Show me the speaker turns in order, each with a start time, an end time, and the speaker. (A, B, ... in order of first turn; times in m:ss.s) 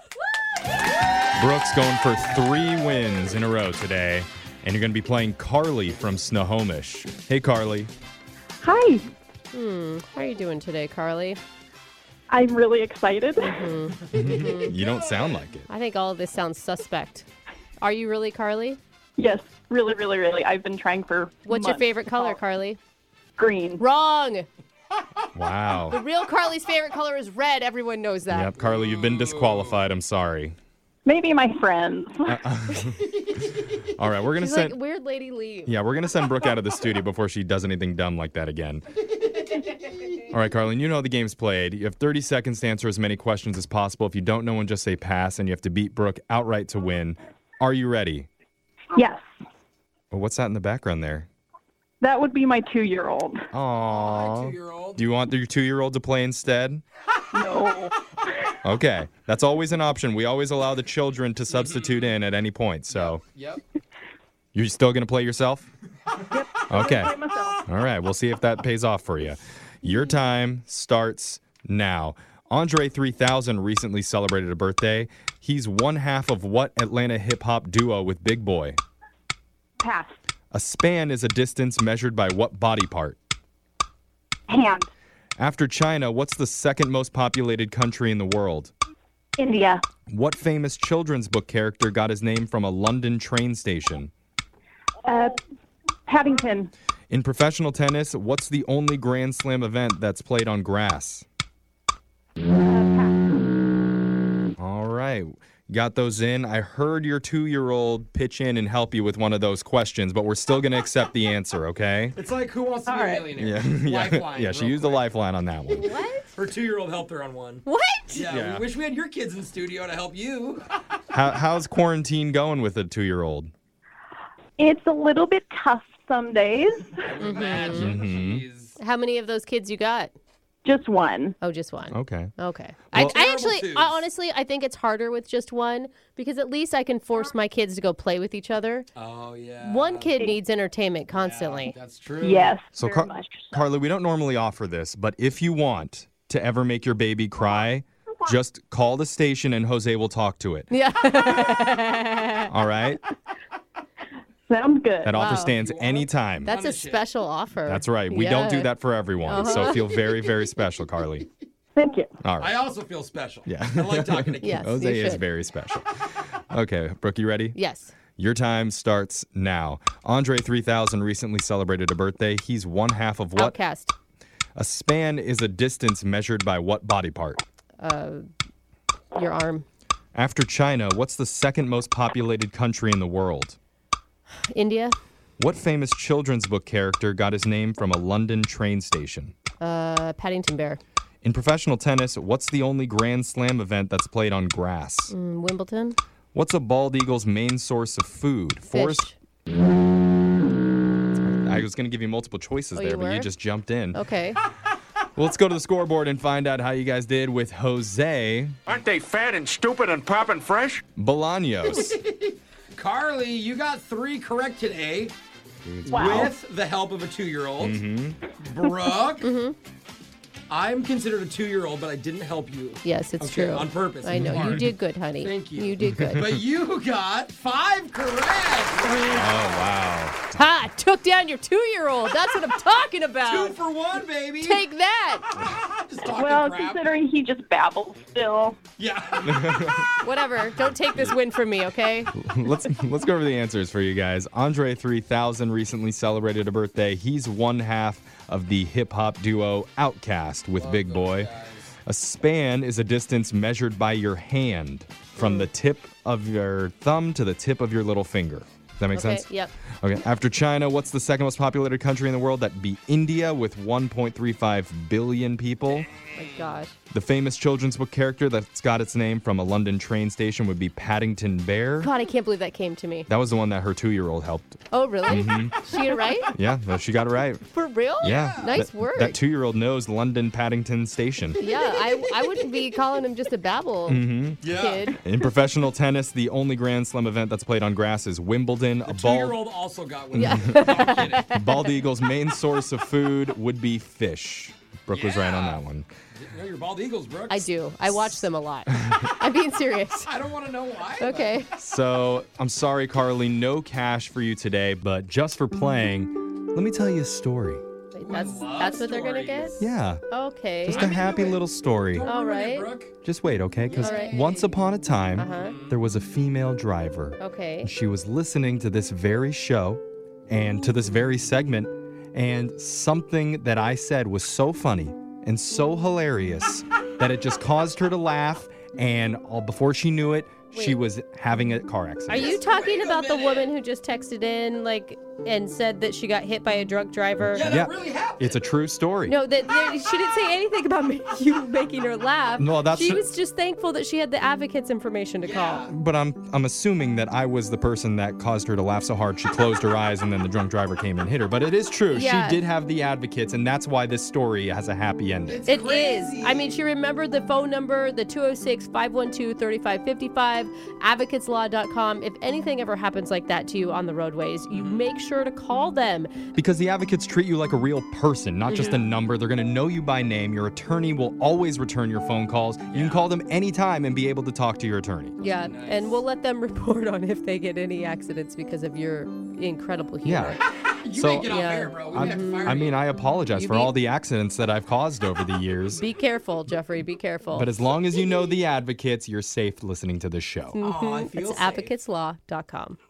0:01.3-0:07.9 A
0:08.6-0:09.1 B
0:09.5-0:11.4 C
0:12.3-0:13.7 B
0:13.4-0:14.8 C
0:14.1-0:15.7 A
0:15.7-0:17.3 C
0:17.8-0:18.8 C
0:19.2-0:22.4 B
0:21.5-0:22.8 C
0:23.4-0:23.8 B
0:23.8-0:24.5 C
0:25.3-0:26.0 A
0:25.9-0:28.6 C
0:28.3-0:30.6 A
0:28.6-0:29.8 D
0:31.0-0:32.4 B
0:32.3-0:33.4 A
0:34.0-0:34.8 A
0:34.4-0:35.7 C
0:35.7-0:38.8 A
0:40.3-0:48.3 A
0:48.9-0:49.2 B
0:50.1-0:51.3 A
0:52.0-0:53.4 B
0:53.5-0:56.8 A
0:53.8-0:55.0 D
0:57.3-0:58.0 B
0:58.6-1:03.2 A
1:01.5-1:02.1 D
1:02.9-1:03.6 D
1:04.5-1:05.7 A
1:06.3-1:07.6 B
1:06.7-1:18.8 A
1:19.8-1:20.1 B
1:20.5-1:23.2 A
1:24.5-1:24.9 B
1:25.4-1:28.7 A
1:29.4-1:29.8 B
1:30.1-1:34.1 A
1:35.0-1:35.4 B
1:36.1-1:36.7 B
1:37.1-1:41.3 A
1:42.5-1:43.4 B
1:44.6-1:52.2 A
1:52.1-1:55.1 D
1:52.9-1:53.3 B
1:53.3-1:56.0 A
1:55.8-1:56.3 C
1:56.3-2:00.7 D
1:57.7-1:58.2 C
1:58.2-1:58.7 A
2:01.1-2:03.5 A
2:04.6-2:07.6 B
2:07.0-2:08.8 D
2:07.2-2:08.0 C
2:07.7-2:08.5 A
2:08.8-2:10.1 C
2:10.6-2:11.4 B
2:11.4-2:18.9 C
2:11.9-2:12.3 A
2:12.9-2:14.0 D
2:19.0-2:20.1 D
2:19.6-2:21.8 C
2:21.1-2:22.6 D
2:22.2-2:23.6 B
2:22.8-2:30.7 A
2:30.7-2:32.5 C
2:32.5-2:33.0 A
2:34.5-2:35.3 B
2:35.0-2:36.5 A
2:35.1-2:35.6 C
2:35.3-2:37.1 D
2:36.4-2:38.7 C
2:37.7-2:41.3 A
2:39.2-2:40.0 C
2:41.8-2:42.2 B
2:42.2-2:42.6 A
2:42.4-2:44.7 D
2:43.5-2:47.6 A
2:44.4-2:45.2 C
2:47.6-2:47.9 C
2:48.2-2:53.6 A
2:53.4-2:53.9 C
2:54.6-2:57.4 A
2:57.8-2:58.3 C
2:59.2-2:59.7 C
3:00.2-3:03.6 A
3:04.5-3:05.0 C
3:05.4-3:09.3 A
3:09.6-3:10.8 C
3:11.2-3:15.1 A
3:15.1-3:16.0 C
3:16.3-3:19.1 A
3:18.7-3:19.2 C
3:21.2-3:24.0 A
3:22.7-3:23.3 C
3:23.9-3:24.4 C
3:25.2-3:28.6 A
3:28.7-3:30.8 E
3:31.0-3:32.0 A
3:31.7-3:35.2 D
3:35.6-3:36.3 A
3:35.8-3:37.8 D
3:35.9-3:36.3 B
3:37.6-3:38.2 A
3:38.4-3:39.3 D
3:39.2-3:39.6 C
3:40.5-3:49.7 D
3:42.8-3:46.3 C
3:44.1-3:44.7 A
3:49.1-3:50.3 A
3:50.3-3:53.6 C
3:53.2-3:54.6 D
3:54.4-3:55.3 C
3:55.4-3:56.8 D
3:56.0-3:58.6 B
3:58.8-3:59.6 D
3:59.2-3:59.9 A
4:00.0-4:02.1 C
4:02.1-4:11.3 A
4:10.6-4:11.7 D
4:11.9-4:19.3 A
4:15.2-4:15.5 C
4:18.9-4:19.5 C
4:19.8-4:25.9 A
4:26.2-4:26.8 C
4:26.9-4:31.9 A
4:31.8-4:33.1 C
4:33.1-4:35.6 A
4:34.7-4:36.4 C
4:36.3-4:37.4 A
4:37.5-4:39.2 C
4:38.0-4:41.4 A
4:38.0-4:38.5 D
4:41.4-4:45.0 C
4:43.9-4:49.4 A
4:44.4-4:44.9 D
4:48.9-4:51.3 D
4:50.1-4:55.9 A
4:50.2-4:51.5 C
4:54.9-4:55.6 D
4:56.2-4:57.5 D
4:57.3-5:00.1 C
5:00.0-5:01.4 D
5:01.0-5:01.5 C
5:01.6-5:07.6 A
5:07.9-5:10.9 C
5:08.0-5:09.6 D
5:09.6-5:10.0 A
5:10.7-5:12.1 A
5:10.7-5:12.9 D
5:12.1-5:12.7 C
5:13.0-5:32.4 A
5:13.7-5:14.5 D
5:13.7-5:14.3 C
5:15.2-5:15.6 C
5:15.3-5:15.8 D
5:17.2-5:17.7 C
5:30.5-5:30.8 C
5:32.1-5:37.5 C
5:32.2-5:33.5 D
5:37.3-5:38.4 D
5:37.4-5:39.2 A
5:39.1-5:45.7 C
5:42.4-5:43.0 A
5:45.2-5:45.7 D
5:45.7-5:55.4 A
5:51.9-5:52.4 C
5:55.3-5:56.5 D
5:55.5-6:06.2 C
6:04.5-6:04.8 D
6:06.4-6:15.2 A
6:08.5-6:08.8 C
6:12.7-6:13.1 D
6:15.2-6:20.4 C
6:15.3-6:16.0 D
6:20.0-6:20.4 A
6:20.4-6:22.8 D
6:20.9-6:21.4 A
6:21.3-6:22.7 C
6:21.9-6:25.8 A
6:23.3-6:23.7 C
6:25.8-6:27.5 C
6:27.3-6:30.6 A
6:30.5-6:32.8 C
6:30.6-6:31.7 D